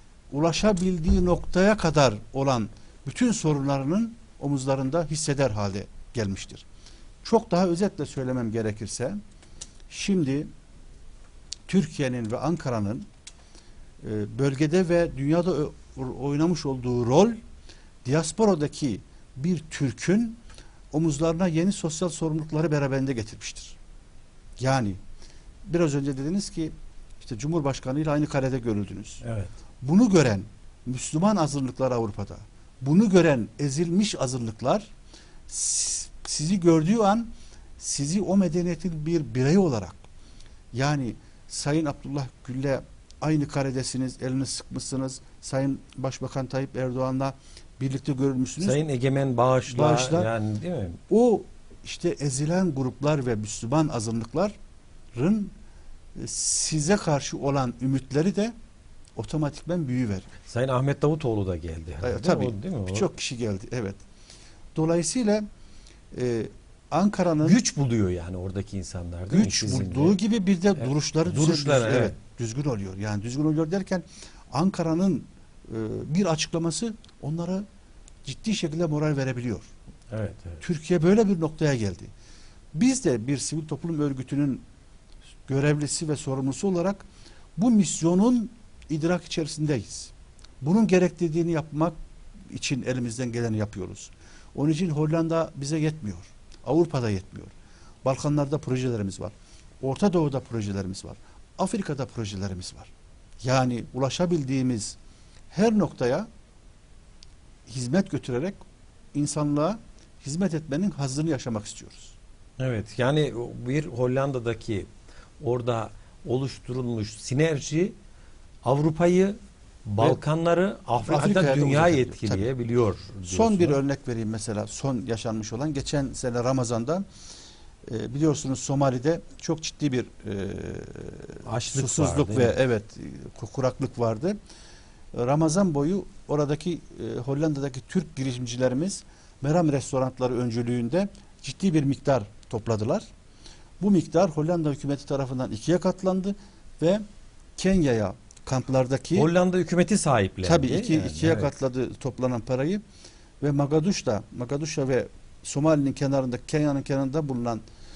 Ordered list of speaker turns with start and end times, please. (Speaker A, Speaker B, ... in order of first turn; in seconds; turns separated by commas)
Speaker A: 0.3-6.7, Speaker A: 7.2-9.2, Speaker A: 9.9-10.5, Speaker A: 11.7-13.1, Speaker A: 14.0-17.4, Speaker A: 18.1-20.4, Speaker A: 20.9-23.8, Speaker A: 24.6-25.0, Speaker A: 25.6-29.2, Speaker B: 29.2-29.5, Speaker A: 29.8-34.9, Speaker A: 35.5-40.0, Speaker A: 40.7-48.8, Speaker B: 48.6-51.0, Speaker A: 49.7-50.3, Speaker A: 51.1-54.5, Speaker A: 55.1-55.5, Speaker A: 56.1-58.5, Speaker A: 59.2-60.3, Speaker B: 60.5-63.1, Speaker A: 62.0-64.0, Speaker A: 64.8-65.5, Speaker A: 66.1-67.6, Speaker B: 67.4-70.2, Speaker A: 69.3-77.7, Speaker B: 70.8-72.2, Speaker A: 78.2-79.7, Speaker B: 80.1-80.6, Speaker A: 80.6-82.1, Speaker A: 82.7-84.6, Speaker A: 85.5-87.0, Speaker A: 87.6-92.0, Speaker A: 92.5-105.0, Speaker A: 105.5-106.3, Speaker A: 107.7-108.6, Speaker A: 109.1-112.2, Speaker B: 112.6-114.9, Speaker B: 115.4-118.0, Speaker B: 118.6-123.8, Speaker A: 121.1-122.5, Speaker A: 123.3-127.1, Speaker A: 127.8-134.4, Speaker B: 131.4-132.6, Speaker A: 135.1-143.1, Speaker A: 143.8-147.0, Speaker A: 147.6-149.3, Speaker B: 149.1-151.5, Speaker A: 150.4-152.8, Speaker A: 153.4-157.6